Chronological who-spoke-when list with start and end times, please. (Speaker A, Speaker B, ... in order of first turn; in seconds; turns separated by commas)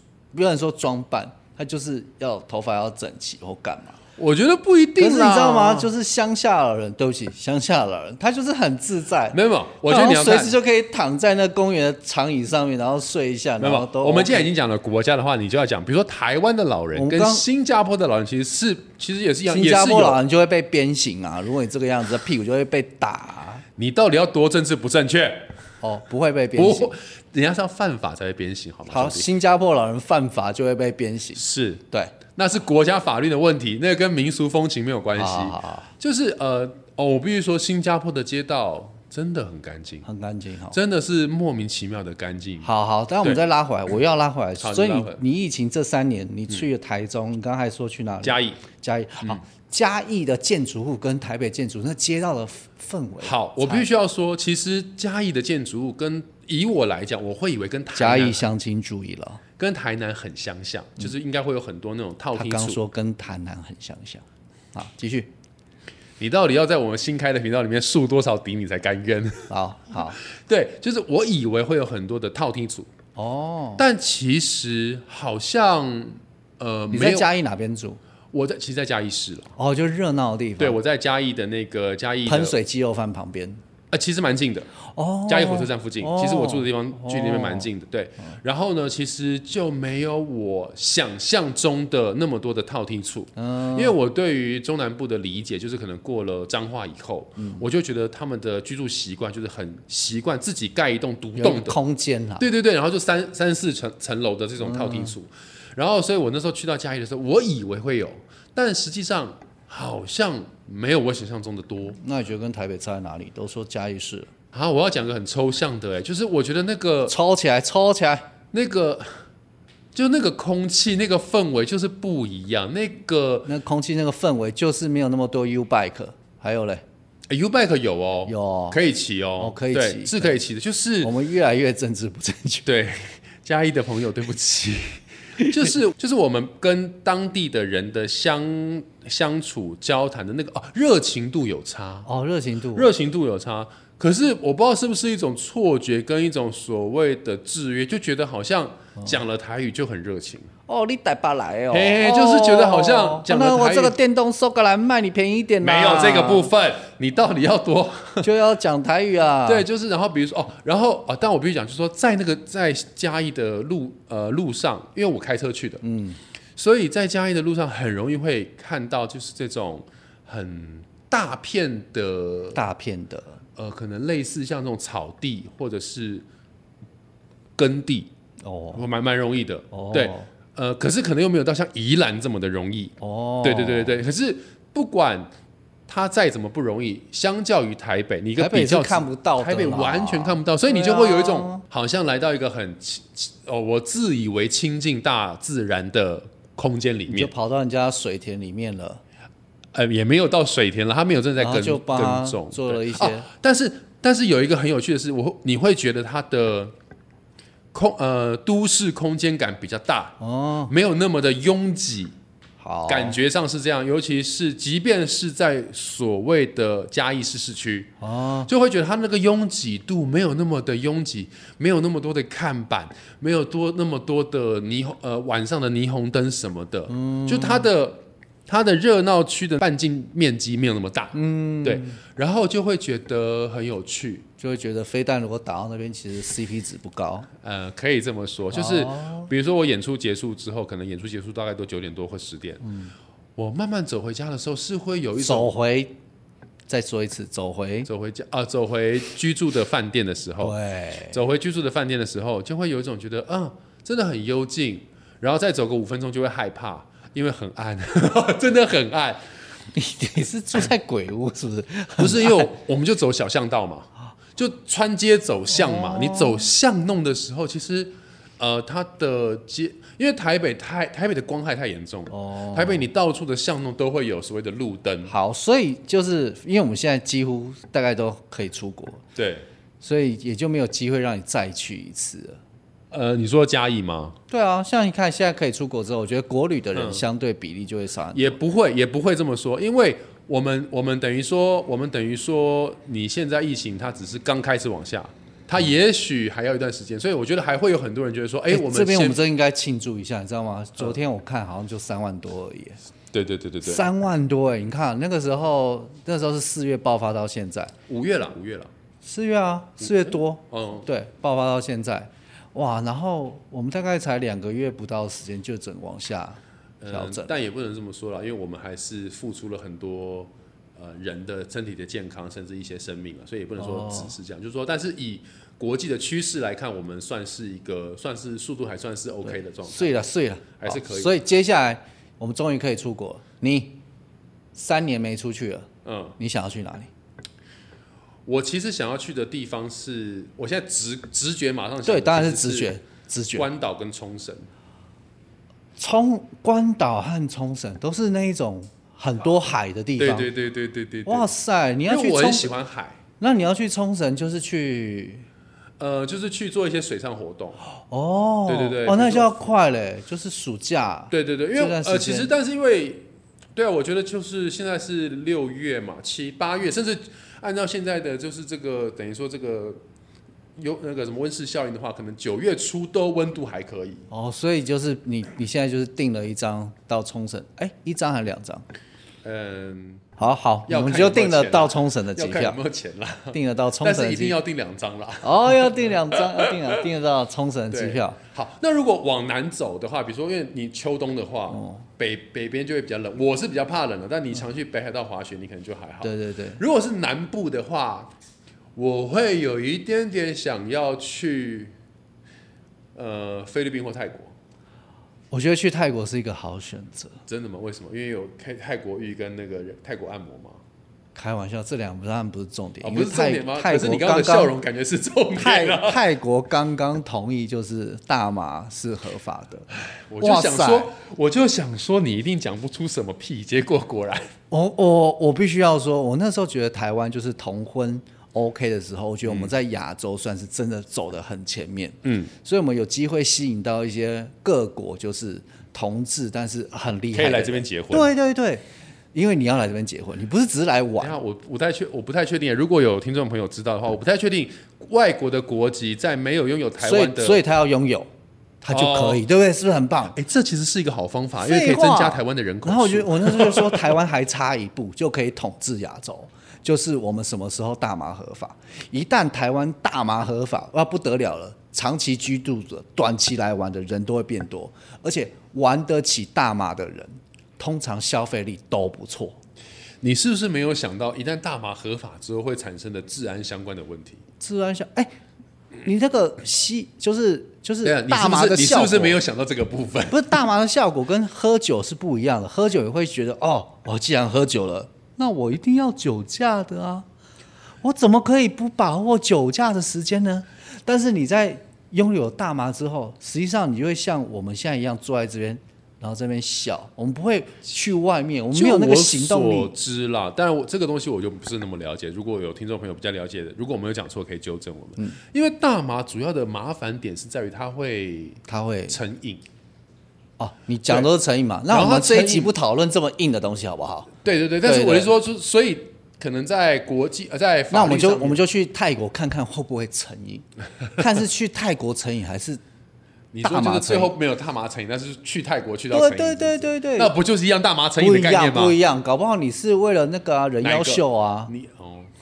Speaker A: 0.3-4.0, Speaker B: 4.2-5.9, Speaker A: 5.0-14.5, Speaker B: 9.3-10.6, Speaker B: 13.6-20.2, Speaker A: 16.9-17.4, Speaker A: 19.5-23.6, Speaker B: 23.8-25.5, Speaker A: 25.8-26.9, Speaker B: 26.6-29.3, Speaker A: 28.9-32.1, Speaker B: 31.4-31.8, Speaker B: 32.4-40.1, Speaker A: 35.1-35.9, Speaker A: 40.0-40.8, Speaker B: 40.7-42.7, Speaker A: 42.6-53.9, Speaker B: 44.6-45.2, Speaker B: 48.2-48.6, Speaker B: 53.2-58.5, Speaker A: 58.0-59.4, Speaker B: 59.6-62.8, Speaker A: 62.4-65.3, Speaker B: 66.2-69.5, Speaker A: 69.5-70.2, Speaker B: 70.2-72.9, Speaker A: 73.2-73.8, Speaker B: 73.8-77.3, Speaker A: 76.9-78.0, Speaker B: 78.3-79.5, Speaker A: 79.6-80.8, Speaker B: 80.6-82.6, Speaker A: 82.3-83.6, Speaker B: 83.9-84.7, Speaker A: 84.9-87.7, Speaker B: 85.3-101.8, Speaker A: 93.4-94.0, Speaker A: 97.4-97.7, Speaker A: 101.4-102.5, Speaker B: 102.4-112.0, Speaker A: 104.6-105.2, Speaker A: 112.0-114.3, Speaker B: 114.5-117.2, Speaker A: 117.1-118.3, Speaker B: 118.5-119.2, Speaker B: 119.9-123.5, Speaker A: 123.5-126.8, Speaker B: 127.3-131.1, Speaker A: 128.3-128.8, Speaker A: 129.4-130.4, Speaker A: 131.0-132.7, Speaker B: 132.7-142.1, Speaker A: 142.1-142.9, Speaker B: 142.7-150.5, Speaker A: 150.7-156.5, Speaker B: 151.7-153.9, Speaker B: 155.6-158.3, Speaker A: 158.2-159.7, Speaker B: 159.5-165.8, Speaker A: 165.8-166.2, Speaker B: 166.6-172.6, Speaker A: 172.6-173.4, Speaker B: 173.6-176.2, Speaker B: 177.6-178.1, Speaker A: 178.4-178.8, Speaker B: 178.7-185.3, Speaker A: 179.7-180.3, Speaker A: 183.0-184.0, Speaker B: 185.9-197.3, Speaker A: 188.4-191.6, Speaker A: 197.1-199.0, Speaker B: 199.8-206.7, Speaker A: 201.4-203.3, Speaker B: 207.7-212.2, Speaker A: 210.2-210.7, Speaker A: 212.6-213.2, Speaker B: 212.9-217.9, Speaker A: 218.0-218.5, Speaker B: 218.5-234.3, Speaker A: 226.9-227.7, Speaker A: 231.1-232.0, Speaker A: 234.4-237.3, Speaker B: 237.4-242.7, Speaker A: 238.5-239.3, Speaker A: 242.6-242.9, Speaker B: 243.4-245.5, Speaker A: 245.2-246.0, Speaker A: 246.7-247.9, Speaker B: 247.9-250.6, Speaker A: 250.4-251.2, Speaker B: 251.1-259.2, Speaker A: 259.7-262.5, Speaker B: 262.0-275.1, Speaker A: 265.5-266.5, Speaker A: 272.1-272.9, Speaker A: 275.1-279.0, Speaker B: 279.2-279.5, Speaker A: 279.8-282.4, Speaker B: 282.9-284.2, Speaker A: 284.3-288.4, Speaker B: 286.8-287.0, Speaker B: 288.1-299.2, Speaker A: 298.5-302.8, Speaker B: 303.1-303.9, Speaker A: 303.6-307.7, Speaker B: 307.9-308.7, Speaker A: 309.0-317.3, Speaker B: 309.8-310.9, Speaker B: 316.8-330.0, Speaker A: 323.6-324.1, Speaker A: 329.2-333.8, Speaker B: 330.6-331.2, Speaker A: 334.6-335.7, Speaker B: 335.9-336.2, Speaker A: 336.2-336.9, Speaker B: 338.3-342.8, Speaker A: 341.9-343.5, Speaker B: 343.4-344.5, Speaker A: 345.8-350.3, Speaker B: 350.0-351.3, Speaker A: 351.1-352.5, Speaker B: 351.9-353.0, Speaker A: 353.2-355.3, Speaker B: 355.8-357.6, Speaker A: 357.8-362.3, Speaker B: 358.5-359.5, Speaker B: 361.1-369.8, Speaker B: 370.6-374.1, Speaker A: 374.1-378.6, Speaker B: 379.2-380.1, Speaker A: 380.2-382.6, Speaker B: 380.7-386.8, Speaker A: 383.3-384.4, Speaker A: 385.2-388.2, Speaker B: 387.7-398.1, Speaker A: 391.5-391.8, Speaker A: 396.0-396.6, Speaker B: 398.8-401.7, Speaker B: 402.9-404.3, Speaker A: 405.3-407.2, Speaker B: 407.3-410.6, Speaker A: 411.1-414.6, Speaker B: 412.8-416.0, Speaker A: 415.4-420.9, Speaker B: 419.9-424.3, Speaker A: 424.5-441.2, Speaker B: 429.3-429.5, Speaker B: 432.0-432.3, Speaker B: 437.1-438.1, Speaker B: 441.0-447.4, Speaker A: 446.8-448.1, Speaker A: 448.6-450.2, Speaker B: 448.7-449.2, Speaker B: 450.1-454.0, Speaker A: 451.4-469.4, Speaker B: 470.0-474.2, Speaker A: 474.4-475.1, Speaker A: 475.8-479.2, Speaker B: 477.8-480.4, Speaker A: 480.1-487.1, Speaker A: 487.8-499.7, Speaker B: 498.5-509.4, Speaker A: 508.5-509.0, Speaker A: 510.4-514.1, Speaker B: 511.7-512.5, Speaker B: 514.2-518.4, Speaker A: 514.6-515.1, Speaker A: 517.7-520.5, Speaker A: 521.0-522.6, Speaker B: 523.3-528.8, Speaker A: 523.4-524.1, Speaker A: 525.9-527.1, Speaker A: 528.0-531.5, Speaker B: 530.6-532.1